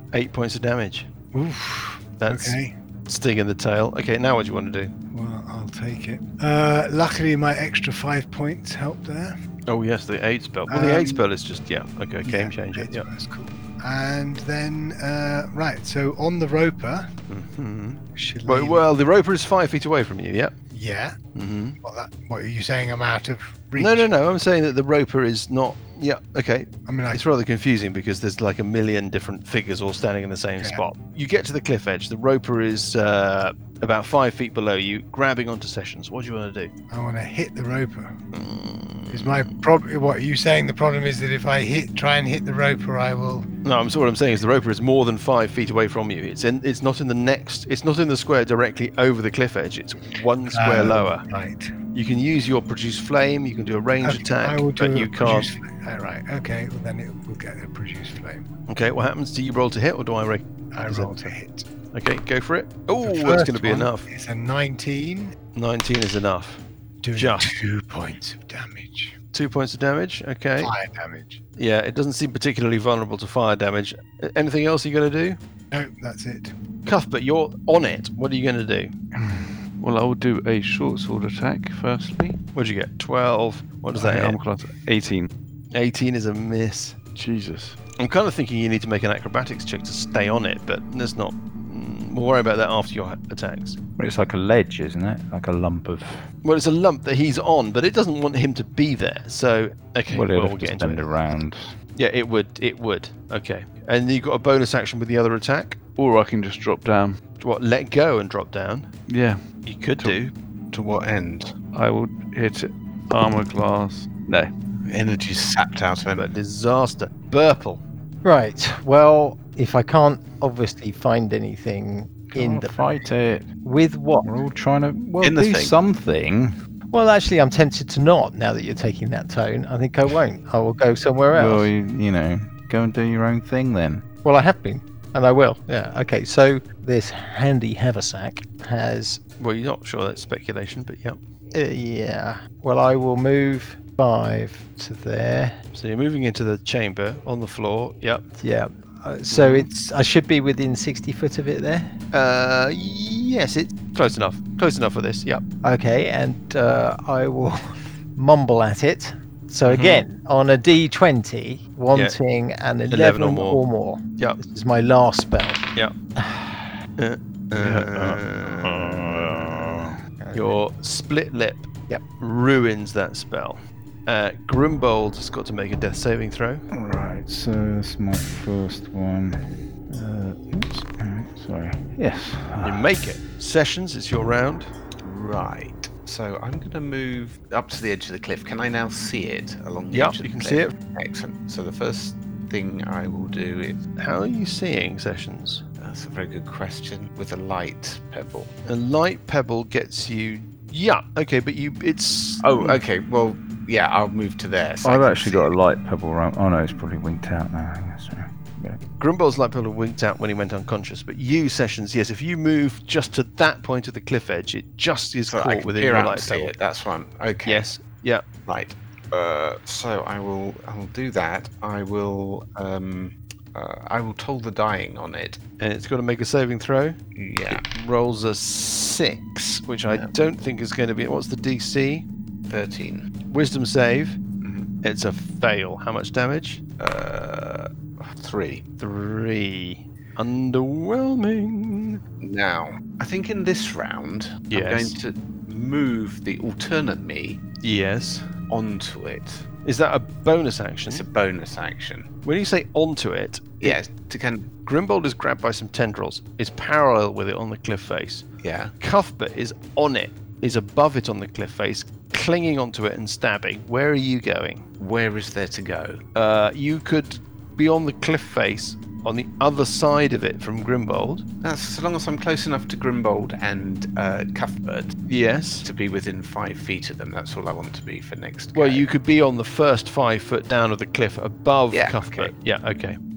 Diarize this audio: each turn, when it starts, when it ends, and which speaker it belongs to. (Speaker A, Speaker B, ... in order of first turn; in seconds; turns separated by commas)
Speaker A: 0.1-1.1, Speaker B: 1.3-2.7, Speaker A: 2.2-4.9, Speaker B: 5.1-9.4, Speaker A: 9.7-13.1, Speaker B: 10.7-11.2, Speaker B: 12.2-17.1, Speaker A: 17.3-20.5, Speaker B: 18.2-18.8, Speaker B: 20.7-21.2, Speaker A: 21.4-21.8, Speaker B: 21.8-24.1, Speaker A: 23.8-36.7, Speaker B: 26.9-27.2, Speaker B: 36.9-38.1, Speaker A: 38.3-39.5, Speaker B: 39.1-43.5, Speaker A: 43.6-51.2, Speaker B: 50.5-51.7, Speaker A: 51.9-55.5, Speaker B: 54.0-58.5, Speaker A: 58.7-61.3, Speaker B: 60.7-61.7, Speaker A: 61.9-64.1, Speaker B: 63.0-65.4, Speaker A: 65.5-66.6, Speaker B: 67.0-69.2, Speaker A: 67.2-67.6, Speaker A: 69.3-70.7, Speaker B: 70.6-71.4, Speaker A: 71.6-75.4, Speaker B: 75.7-76.5, Speaker A: 76.9-78.9, Speaker C: 79.2-82.4, Speaker A: 82.5-84.4, Speaker C: 84.0-85.3, Speaker A: 85.7-87.0, Speaker C: 87.2-87.8, Speaker A: 88.0-93.8, Speaker D: 94.0-96.2, Speaker A: 96.4-101.4, Speaker D: 100.1-101.8, Speaker A: 102.0-105.8, Speaker C: 106.0-107.2, Speaker A: 107.4-108.9, Speaker C: 109.1-109.4, Speaker A: 109.7-110.3, Speaker E: 110.7-111.5, Speaker C: 111.7-114.5, Speaker E: 114.9-116.3, Speaker A: 116.2-117.8, Speaker F: 118.2-123.0, Speaker D: 122.3-123.5, Speaker F: 123.6-124.3, Speaker D: 124.2-126.6, Speaker E: 125.2-125.7, Speaker F: 126.9-131.7, Speaker D: 131.3-134.1, Speaker F: 134.2-139.2, Speaker A: 139.4-141.2, Speaker F: 141.5-145.6, Speaker A: 145.8-148.3, Speaker F: 148.4-151.9, Speaker A: 149.3-149.7, Speaker A: 152.1-155.4, Speaker F: 155.6-166.7, Speaker A: 159.7-160.1, Speaker A: 162.9-163.6, Speaker A: 167.0-176.7, Speaker C: 167.6-168.2, Speaker F: 170.2-170.6, Speaker D: 176.7-182.9, Speaker A: 182.6-184.7, Speaker E: 185.0-193.8, Speaker A: 189.9-190.8, Speaker A: 194.0-195.6, Speaker E: 195.8-198.5, Speaker A: 198.7-202.8, Speaker E: 202.4-205.5, Speaker D: 204.8-208.8, Speaker A: 209.0-216.5, Speaker E: 215.3-217.7, Speaker A: 217.4-218.2, Speaker E: 218.5-225.4, Speaker A: 225.6-227.0, Speaker E: 227.2-227.6, Speaker A: 227.5-232.1, Speaker E: 232.5-233.1, Speaker A: 233.3-234.2, Speaker E: 234.4-234.7, Speaker A: 234.8-236.6, Speaker E: 236.8-238.6, Speaker A: 238.8-242.0, Speaker E: 242.2-247.4, Speaker A: 244.5-245.0, Speaker A: 247.6-248.3, Speaker E: 248.5-249.5, Speaker A: 249.7-251.1, Speaker E: 250.9-252.1, Speaker A: 252.2-253.8, Speaker E: 253.6-254.5, Speaker A: 254.7-258.2, Speaker E: 258.4-258.7, Speaker A: 258.8-264.6, Speaker E: 264.8-266.0, Speaker A: 266.1-271.2, Speaker E: 271.4-274.9, Speaker A: 275.1-275.7, Speaker E: 275.6-278.9, Speaker A: 278.6-283.0, Speaker E: 281.7-282.3